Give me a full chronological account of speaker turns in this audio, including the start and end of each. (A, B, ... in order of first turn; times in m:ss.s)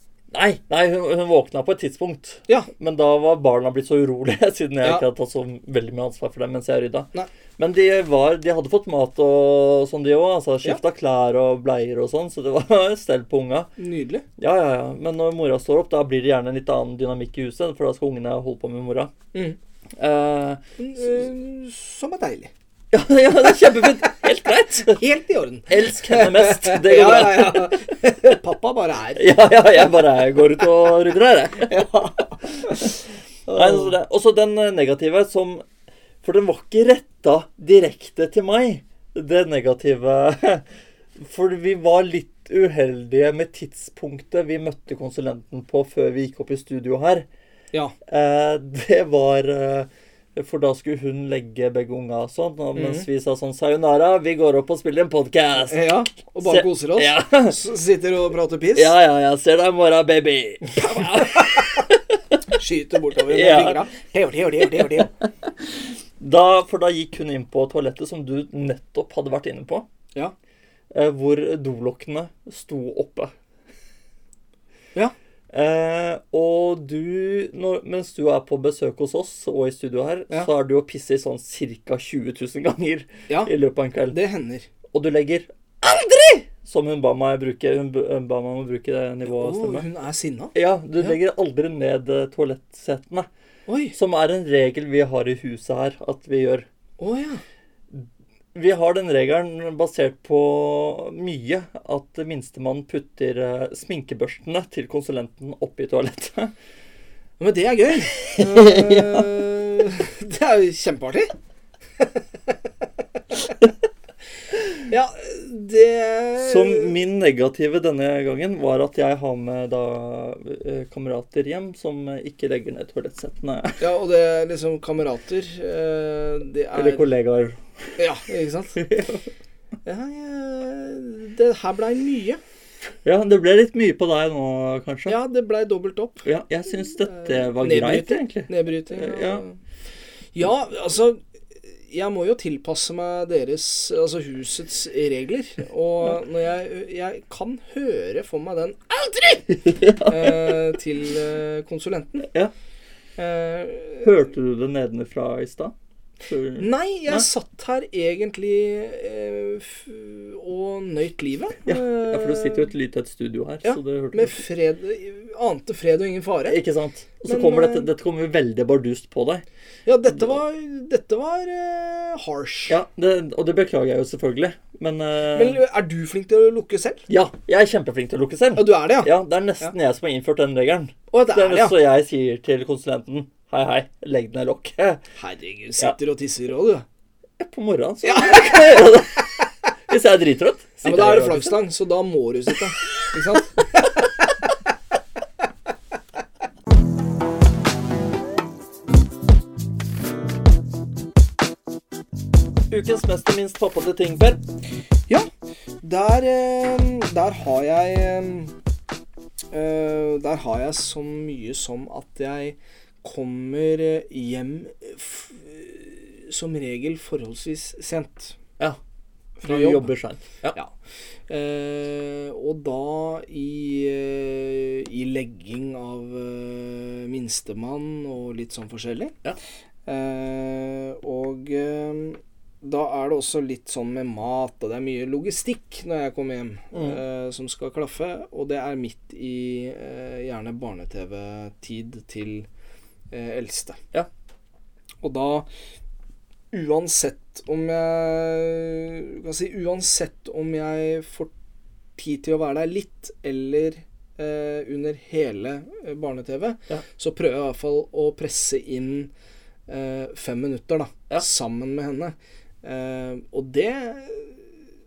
0:00.3-0:13.7 A
0:13.8-0:14.2 B
0:14.4-0:19.1 A
0:20.0-0:20.6 A
0:20.8-0:22.5 B
0:22.9-0:25.0 A
0:24.8-0:29.3 B
0:25.7-0:27.9 A
0:29.2-0:31.9 A
0:31.6-0:33.9 B
0:33.5-0:35.6 A
0:36.2-0:47.3 A
0:48.1-0:57.6 A
0:52.7-0:53.1 B
0:55.7-0:58.9 B
0:58.7-1:02.4 A
1:00.7-1:01.8 B
1:02.5-1:05.1 B
1:03.2-1:03.8 A
1:04.6-1:09.9 A
1:10.9-1:13.3 A
1:15.5-1:24.2 A
1:24.1-1:24.7 B
1:24.9-1:29.9 A
1:29.3-1:31.2 B
1:30.5-1:33.3 A
1:33.7-1:34.0 B
1:33.9-1:36.7 A
1:37.0-1:37.4 B
1:37.9-1:46.5 A
1:47.4-1:51.3 B
1:48.1-1:49.4 A
1:54.8-1:56.9 B
1:56.4-2:03.9 A
2:03.8-2:07.1 B
2:06.7-2:07.9 A
2:08.0-2:08.8 B
2:08.8-2:09.3 A
2:09.8-2:12.4 B
2:13.0-2:15.2 A
2:15.1-2:16.2 B
2:16.2-2:19.4 A
2:17.1-2:19.6 B
2:20.4-2:32.3 B
2:29.5-2:30.6 A
2:32.2-2:32.5 A
2:33.2-2:34.1 B
2:34.0-2:37.2 A
2:36.6-2:42.7 B
2:41.6-2:44.4 A
2:43.6-2:46.6 B
2:46.4-2:49.4 A
2:47.2-2:47.9 B
2:49.9-2:52.8 B
2:50.1-2:50.4 A
2:52.7-2:55.6 A
2:55.3-2:57.1 B
2:57.1-3:05.0 A
2:58.6-2:59.7 B
3:01.1-3:01.8 B
3:05.2-3:06.8 B
3:07.4-3:09.4 A
3:08.0-3:08.9 B
3:09.9-3:11.6 A
3:10.8-3:13.9 B
3:22.7-3:24.4 A
3:25.8-3:28.5 B
3:29.5-3:38.4 B
3:39.4-3:39.9 B
3:39.4-3:40.6 A
3:41.3-3:49.1 B
3:49.9-4:02.5 B
3:56.7-3:57.0 A
4:03.1-4:03.8 B
4:05.0-4:05.5 B
4:06.5-4:11.3 B
4:12.0-4:19.1 B
4:19.7-4:24.4 B